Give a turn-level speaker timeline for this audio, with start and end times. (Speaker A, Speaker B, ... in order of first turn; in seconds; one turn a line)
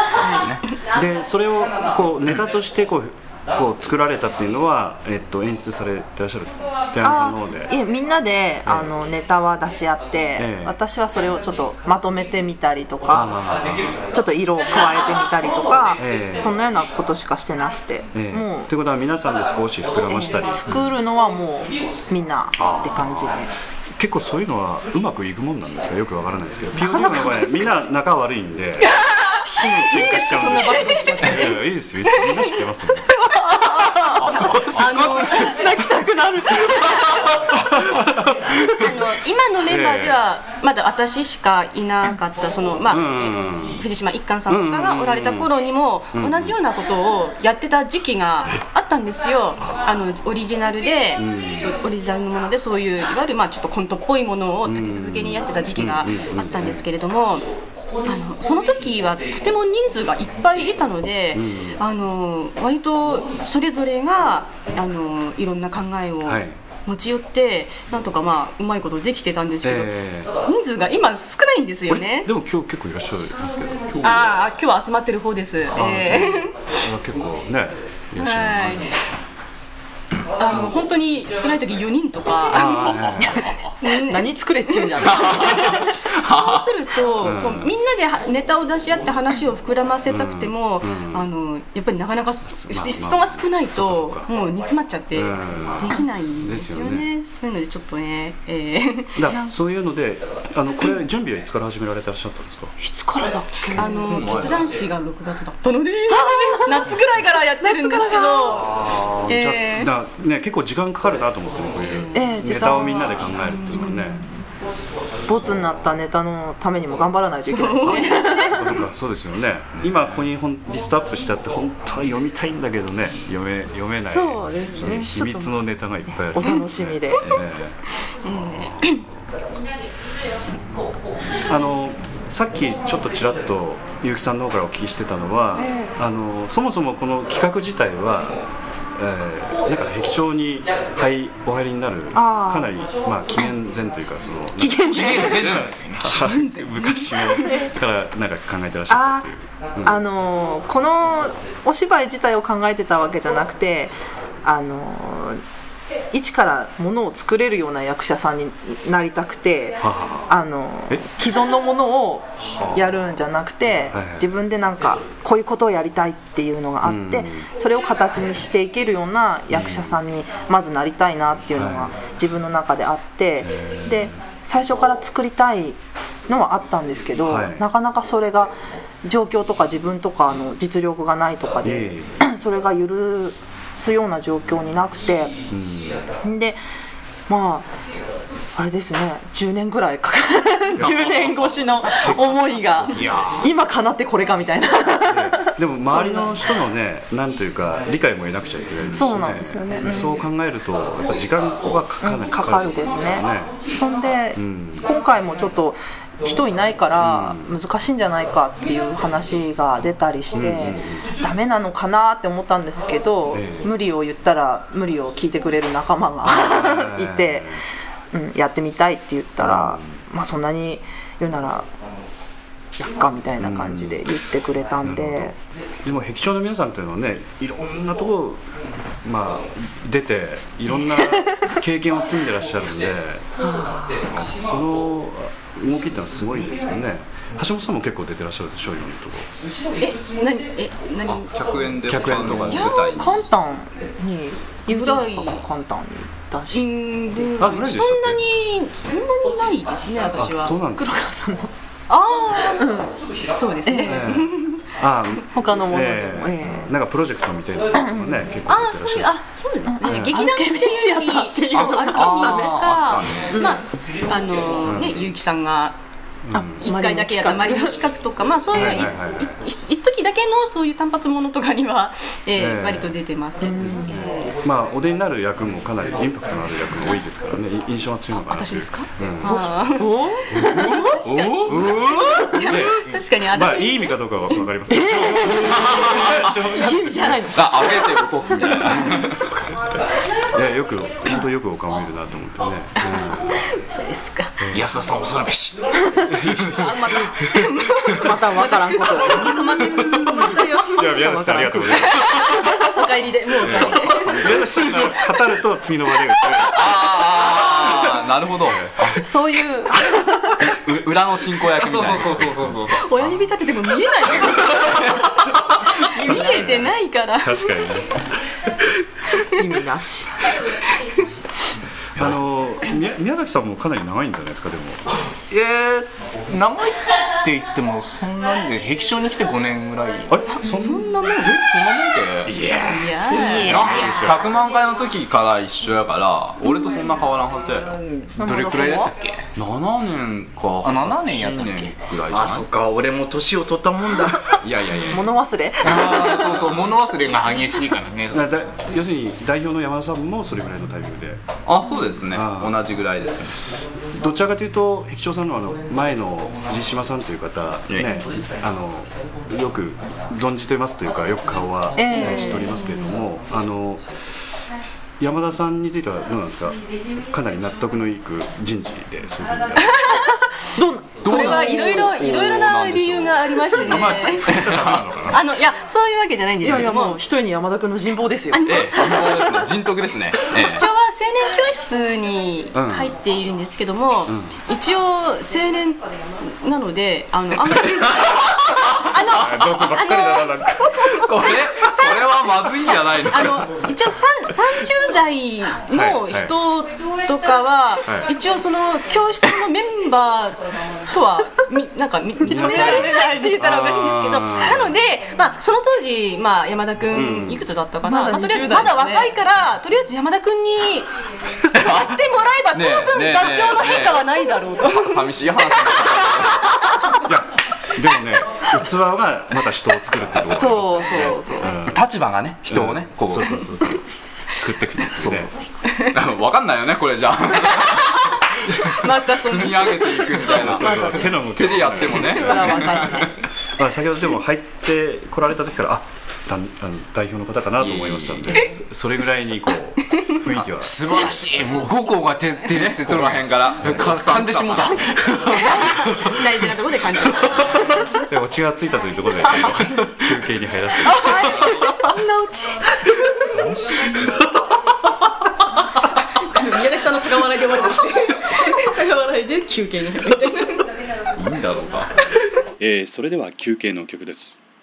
Speaker A: 0.2-0.5
Speaker B: 0.2-0.6
Speaker C: 0.8-7.7
Speaker A: 7.0-13.4
Speaker C: 8.7-8.9
Speaker C: 10.4-10.8
Speaker C: 13.1-14.1
Speaker A: 14.1-18.7
Speaker C: 16.0-16.5
Speaker C: 18.1-21.0
Speaker A: 20.1-23.5
Speaker C: 22.6-23.4
Speaker C: 23.9-33.2
Speaker A: 26.7-27.9
Speaker D: 28.8-32.5
Speaker A: 33.3-38.0
Speaker D: 34.2-35.7
Speaker C: 37.6-38.4
Speaker D: 38.7-57.5
Speaker C: 39.6-40.2
Speaker C: 42.9-43.9
Speaker C: 44.5-45.5
Speaker C: 46.1-46.5
Speaker C: 51.2-51.7
Speaker C: 54.6-56.8
Speaker D: 58.0-72.3
Speaker C: 61.3-61.8
Speaker C: 66.2-66.6
Speaker C: 69.6-70.3
Speaker C: 71.9-74.4
Speaker D: 74.0-76.5
Speaker C: 75.7-79.0
Speaker D: 78.2-78.9
Speaker D: 80.4-83.2
Speaker C: 82.5-83.5
Speaker A: 83.2-86.0
Speaker D: 83.8-99.3
Speaker C: 87.2-87.8
Speaker C: 90.1-91.3
Speaker C: 92.5-94.3
Speaker C: 95.2-97.1
Speaker C: 99.2-102.7
Speaker A: 99.3-99.5
Speaker A: 102.8-104.6
Speaker D: 103.7-109.9
Speaker B: 104.1-104.6
Speaker A: 106.1-106.9
Speaker A: 107.6-108.6
Speaker C: 108.5-114.3
Speaker D: 111.8-112.4
Speaker A: 112.1-114.3
Speaker D: 113.4-114.2
Speaker A: 115.3-118.8
Speaker C: 115.4-115.8
Speaker D: 117.5-118.6
Speaker C: 118.5-129.2
Speaker A: 124.1-125.5
Speaker A: 126.1-127.2
Speaker D: 128.2-129.0
Speaker C: 131.4-138.4
Speaker A: 135.6-135.9
Speaker C: 138.9-150.0
Speaker A: 142.1-142.7
Speaker A: 144.6-145.6
Speaker E: 144.9-146.2
Speaker D: 146.1-147.5
Speaker A: 147.4-147.7
Speaker A: 148.9-149.3
Speaker A: 149.8-155.4
Speaker A: 156.1-185.4
Speaker C: 159.8-160.3
Speaker C: 162.4-162.8
Speaker C: 163.9-164.3
Speaker C: 166.8-167.5
Speaker C: 169.5-170.0
Speaker C: 171.5-171.9
Speaker C: 173.4-174.2
Speaker C: 177.2-177.7
Speaker C: 181.6-182.2
Speaker C: 185.5-186.1
Speaker A: 186.2-186.6
Speaker A: 187.3-187.7
Speaker A: 188.6-196.6
Speaker C: 190.8-191.2
Speaker C: 192.0-193.1
Speaker E: 192.9-193.5
Speaker C: 195.1-203.6
Speaker A: 198.9-200.2
Speaker A: 202.0-221.7
Speaker C: 204.4-204.9
Speaker C: 207.0-207.5
Speaker C: 210.3-211.1
Speaker C: 213.3-213.7
Speaker C: 216.2-217.7
Speaker C: 219.4-220.0
Speaker A: 222.8-225.3
Speaker C: 223.4-224.0
Speaker C: 224.8-228.5
Speaker C: 229.0-239.3
Speaker A: 230.8-231.3
Speaker A: 233.4-234.0
Speaker D: 239.8-241.6
Speaker B: 241.1-243.3
Speaker C: 241.8-242.7
Speaker D: 242.5-243.1
Speaker A: 242.7-246.7
Speaker D: 244.7-245.4
Speaker D: 246.5-250.6
Speaker C: 247.4-248.2
Speaker C: 250.1-251.0
Speaker A: 250.7-251.5
Speaker D: 251.9-252.7
Speaker A: 252.6-252.9
Speaker D: 253.2-254.6
Speaker A: 253.7-254.2
Speaker C: 253.8-259.2
Speaker A: 255.3-256.7
Speaker A: 257.8-258.2
Speaker D: 258.5-265.8
Speaker A: 259.7-262.6
Speaker C: 259.8-260.2
Speaker B: 261.5-263.4
Speaker A: 263.3-263.6
Speaker C: 264.6-265.1
Speaker C: 266.2-266.7
Speaker A: 266.3-267.8
Speaker D: 266.6-274.4
Speaker C: 268.5-269.5
Speaker A: 268.5-268.9
Speaker C: 272.4-272.9
Speaker A: 273.4-274.0
Speaker C: 273.5-279.5
Speaker D: 278.2-284.4
Speaker A: 279.2-281.0
Speaker B: 280.3-282.1
Speaker C: 281.5-287.3
Speaker A: 281.9-282.5
Speaker A: 284.7-289.3
Speaker D: 286.6-287.1
Speaker B: 287.3-289.3
Speaker C: 290.3-293.4
Speaker D: 292.8-294.4
Speaker C: 294.4-294.7
Speaker E: 294.5-295.7
Speaker C: 296.1-296.8
Speaker D: 296.4-301.0
Speaker A: 298.0-302.8
Speaker C: 300.7-302.6
Speaker D: 301.8-304.4
Speaker C: 303.4-306.7
Speaker B: 306.5-309.0
Speaker C: 308.5-309.0
Speaker A: 309.0-310.4
Speaker B: 310.4-312.8
Speaker E: 311.5-312.8
Speaker D: 312.7-317.7
Speaker A: 316.0-316.7
Speaker C: 316.0-318.1
Speaker A: 319.3-320.2
Speaker C: 321.9-324.9
Speaker E: 325.3-334.3
Speaker C: 330.1-330.8
Speaker D: 330.3-331.3
Speaker C: 332.3-334.2
Speaker D: 332.6-333.7
Speaker B: 333.4-337.8
Speaker E: 336.6-337.1
Speaker E: 337.7-339.2
Speaker A: 338.2-338.9
Speaker B: 339.4-342.5
Speaker E: 340.6-344.4
Speaker B: 344.4-345.1
Speaker A: 344.9-346.5
Speaker E: 345.6-348.3
Speaker C: 348.1-351.2
Speaker B: 351.5-353.5
Speaker C: 352.1-352.6
Speaker C: 353.9-363.9
Speaker A: 361.8-362.7
Speaker D: 362.0-362.8
Speaker C: 365.0-370.0
Speaker D: 369.7-370.1
Speaker A: 370.4-372.0
Speaker B: 371.0-374.9
Speaker D: 371.0-374.5
Speaker C: 373.5-375.3
Speaker D: 375.1-377.0
Speaker A: 376.4-378.5
Speaker D: 378.3-379.5
Speaker B: 378.4-380.7
Speaker D: 380.2-410.9
Speaker C: 382.5-382.9
Speaker C: 384.1-384.4
Speaker C: 389.1-391.1
Speaker B: 390.9-393.5
Speaker C: 395.7-396.4
Speaker C: 402.2-404.8
Speaker A: 402.3-403.4
Speaker C: 406.9-407.5
Speaker A: 407.8-409.1
Speaker D: 411.5-417.0
Speaker B: 411.6-411.9
Speaker B: 412.5-416.5
Speaker C: 417.0-421.8
Speaker A: 420.3-421.6
Speaker B: 421.6-423.5
Speaker E: 421.8-422.1
Speaker C: 422.5-425.3
Speaker B: 424.9-433.1
Speaker D: 427.9-430.4
Speaker C: 430.3-432.8
Speaker A: 430.6-431.1
Speaker A: 432.0-433.2
Speaker C: 433.6-441.3
Speaker B: 437.6-438.5
Speaker E: 440.5-445.6
Speaker B: 442.5-445.2
Speaker D: 445.2-447.7
Speaker C: 447.6-451.4
Speaker D: 450.8-453.2
Speaker D: 456.0-460.7
Speaker B: 461.1-461.9
Speaker C: 462.6-464.4